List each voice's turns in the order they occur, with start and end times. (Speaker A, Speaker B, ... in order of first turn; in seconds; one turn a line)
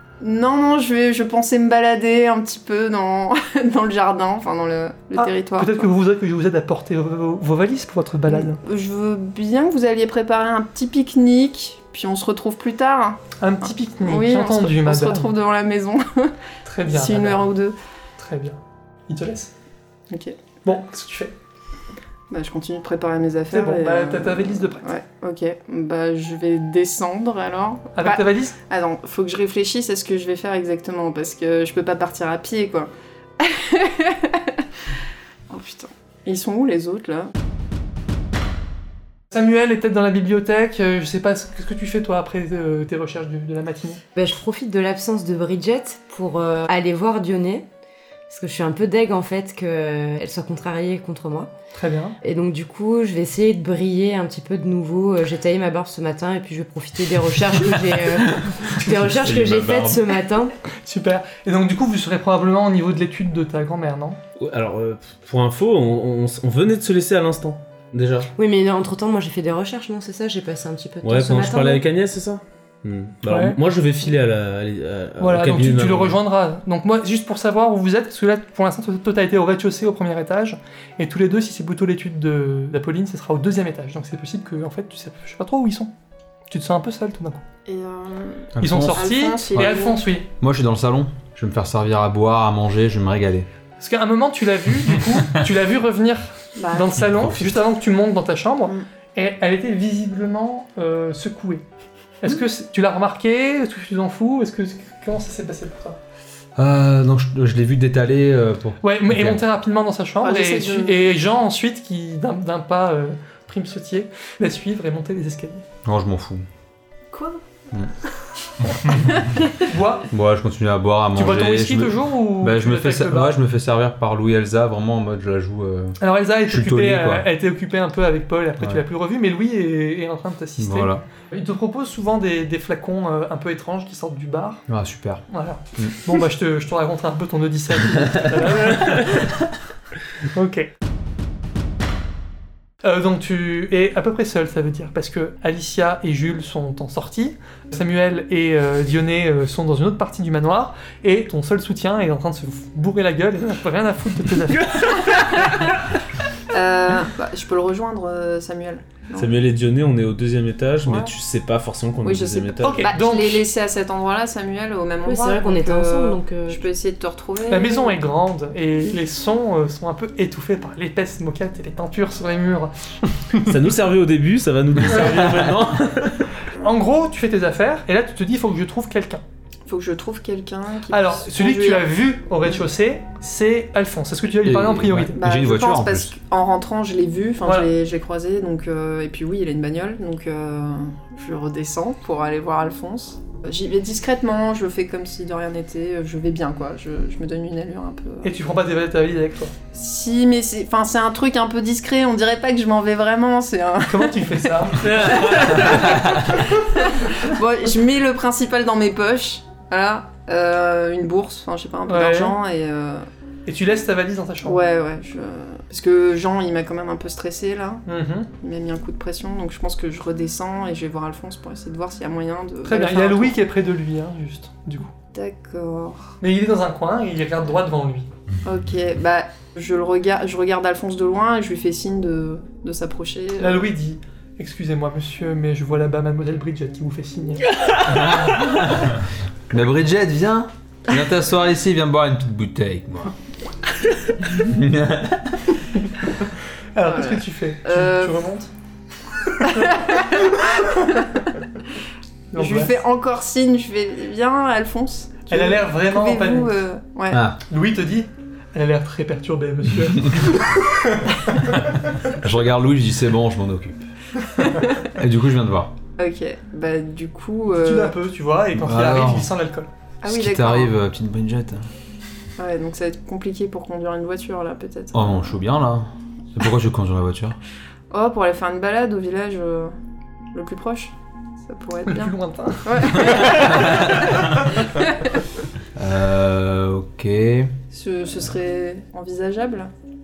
Speaker A: 0.2-5.9
Speaker B: 5.2-8.6
Speaker A: 8.3-13.2
Speaker B: 13.4-15.3
Speaker A: 14.0-17.8
Speaker B: 16.6-17.5
Speaker B: 18.2-19.5
Speaker A: 20.1-20.4
Speaker B: 20.6-21.3
Speaker A: 22.3-34.6
Speaker B: 23.5-24.9
Speaker B: 27.9-28.6
Speaker A: 35.5-37.3
Speaker B: 39.3-44.0
Speaker C: 44.1-47.6
Speaker C: 48.3-51.5
Speaker B: 51.7-52.2
Speaker C: 52.2-60.5
Speaker D: 59.2-59.8
Speaker E: 59.3-59.9
Speaker B: 60.8-64.2
Speaker E: 64.4-68.3
Speaker C: 68.3-71.8
Speaker E: 71.0-76.2
Speaker B: 73.2-73.6
Speaker B: 75.2-85.9
Speaker B: 86.5-87.4
Speaker A: 87.7-90.0
Speaker D: 88.5-89.8
Speaker B: 88.6-90.3
Speaker D: 90.3-93.5
Speaker B: 93.8-101.6
Speaker A: 96.6-97.0
Speaker B: 102.2-106.0
Speaker D: 106.5-109.4
Speaker B: 108.8-115.6
Speaker A: 110.2-111.0
Speaker D: 115.8-116.4
Speaker A: 117.1-117.4
Speaker A: 118.9-119.5
Speaker B: 119.6-120.1
Speaker D: 120.1-127.3
Speaker B: 121.1-123.4
Speaker B: 126.0-134.7
Speaker D: 130.6-131.0
Speaker D: 134.7-135.2
Speaker B: 135.3-139.3
Speaker B: 140.3-140.7
Speaker B: 142.8-155.0
Speaker A: 155.1-155.8
Speaker A: 156.5-159.3
Speaker E: 159.2-162.9
Speaker A: 162.0-168.0
Speaker B: 162.6-163.5
Speaker C: 165.0-166.7
Speaker B: 167.5-172.9
Speaker E: 173.4-176.3
Speaker B: 174.9-175.4
Speaker B: 176.4-179.2
Speaker A: 179.7-181.9
Speaker B: 180.9-185.2
Speaker D: 184.4-186.1
Speaker A: 185.1-198.3
Speaker B: 187.4-187.7
Speaker B: 198.2-199.5
Speaker A: 199.7-213.1
Speaker B: 203.8-206.1
Speaker B: 211.8-212.4
Speaker B: 213.4-214.6
Speaker A: 214.4-217.8
Speaker B: 217.8-218.3
Speaker A: 218.4-223.3
Speaker B: 222.6-224.9
Speaker A: 225.1-226.2
Speaker B: 226.2-228.1
Speaker A: 228.4-233.7
Speaker B: 233.4-238.2
Speaker D: 237.8-243.1
Speaker D: 244.2-245.5
Speaker B: 246.7-248.5
Speaker A: 246.8-248.2
Speaker B: 249.4-250.0
Speaker A: 249.4-251.3
Speaker B: 252.3-252.8
Speaker A: 252.3-257.2
Speaker B: 255.3-256.5
Speaker D: 257.1-257.4
Speaker B: 257.5-261.8
Speaker D: 262.0-263.9
Speaker A: 264.4-264.8
Speaker D: 264.9-265.7
Speaker A: 266.0-267.9
Speaker B: 267.5-269.7
Speaker D: 268.5-269.3
Speaker A: 270.0-270.7
Speaker D: 270.0-271.7
Speaker A: 272.4-275.4
Speaker D: 274.9-277.4
Speaker A: 277.9-279.7
Speaker A: 280.3-285.2
Speaker B: 281.9-284.3
Speaker D: 283.5-284.0
Speaker D: 285.8-287.5
Speaker A: 287.7-289.7